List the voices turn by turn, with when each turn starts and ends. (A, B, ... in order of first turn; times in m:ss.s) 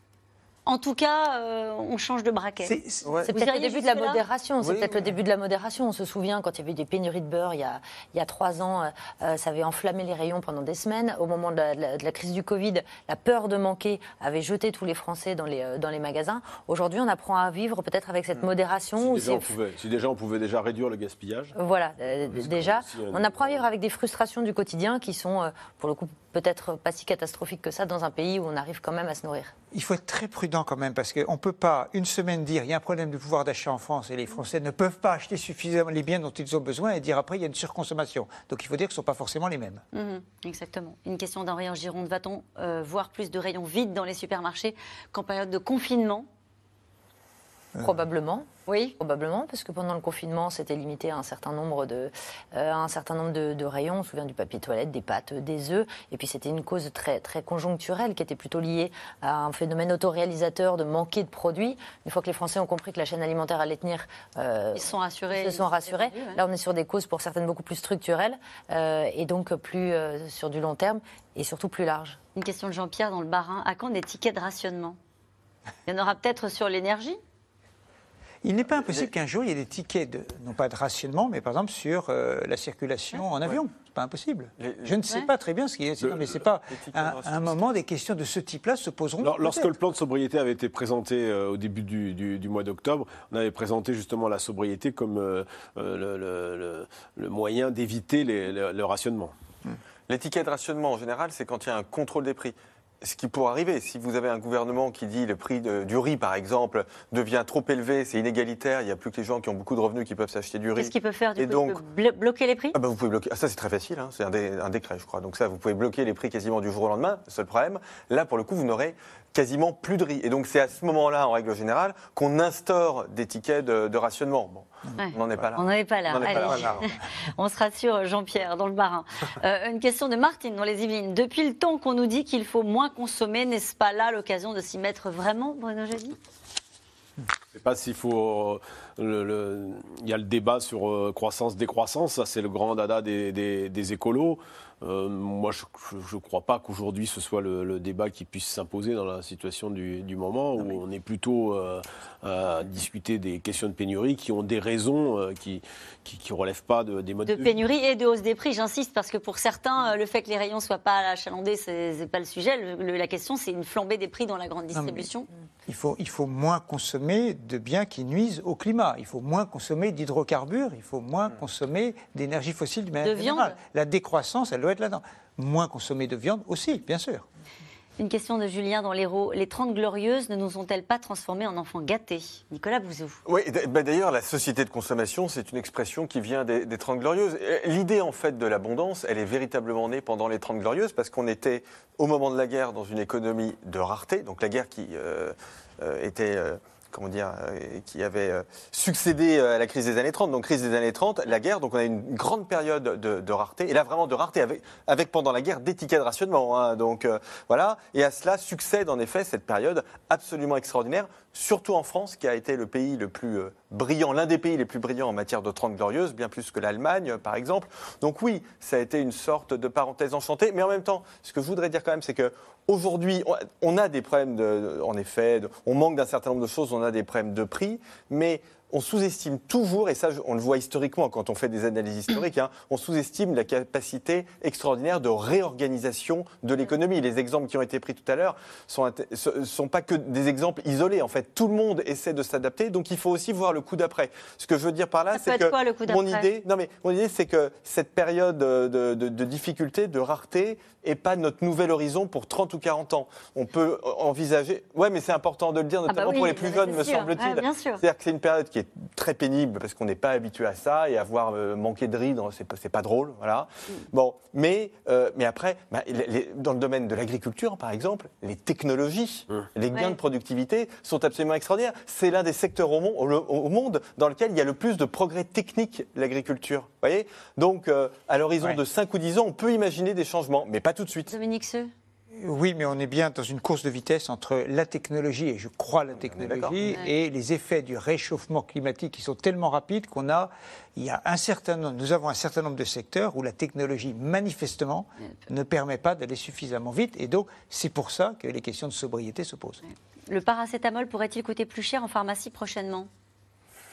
0:00.7-0:04.2 A
0:02.6-0:03.1 B
0:03.2-0:19.6 C
0:04.7-0:05.0 B
0:19.0-0:21.5 D
0:21.6-0:29.5 C
0:22.3-0:23.6 D
0:29.7-0:39.8 B
0:39.9-0:46.3 A
0:47.8-0:48.5 C
0:48.7-0:49.0 A
0:49.0-1:12.2 C
1:04.7-1:06.4 A
1:12.4-1:15.0 A
1:15.9-1:17.2 A
1:18.4-1:29.7 B
1:18.8-1:19.1 E
1:24.6-1:25.0 E
1:26.7-1:27.6 E
1:29.2-1:39.3 D
1:40.1-1:51.8 E
1:50.8-1:52.7 A
1:52.7-2:06.7 E
2:04.8-2:05.5 B
2:05.0-2:16.2 A
2:06.2-2:06.9 B
2:17.5-2:37.5 D
2:37.3-2:45.3 A
2:44.7-2:45.1 B
2:45.7-2:57.2 B
2:53.0-2:53.6 A
2:58.0-3:03.2 A
3:03.3-4:41.1 E
4:05.1-4:06.3 A
4:15.9-4:17.8 A
4:41.1-4:41.7 A
4:42.1-4:59.6 B
4:46.0-4:46.6 E
4:59.6-5:02.9 A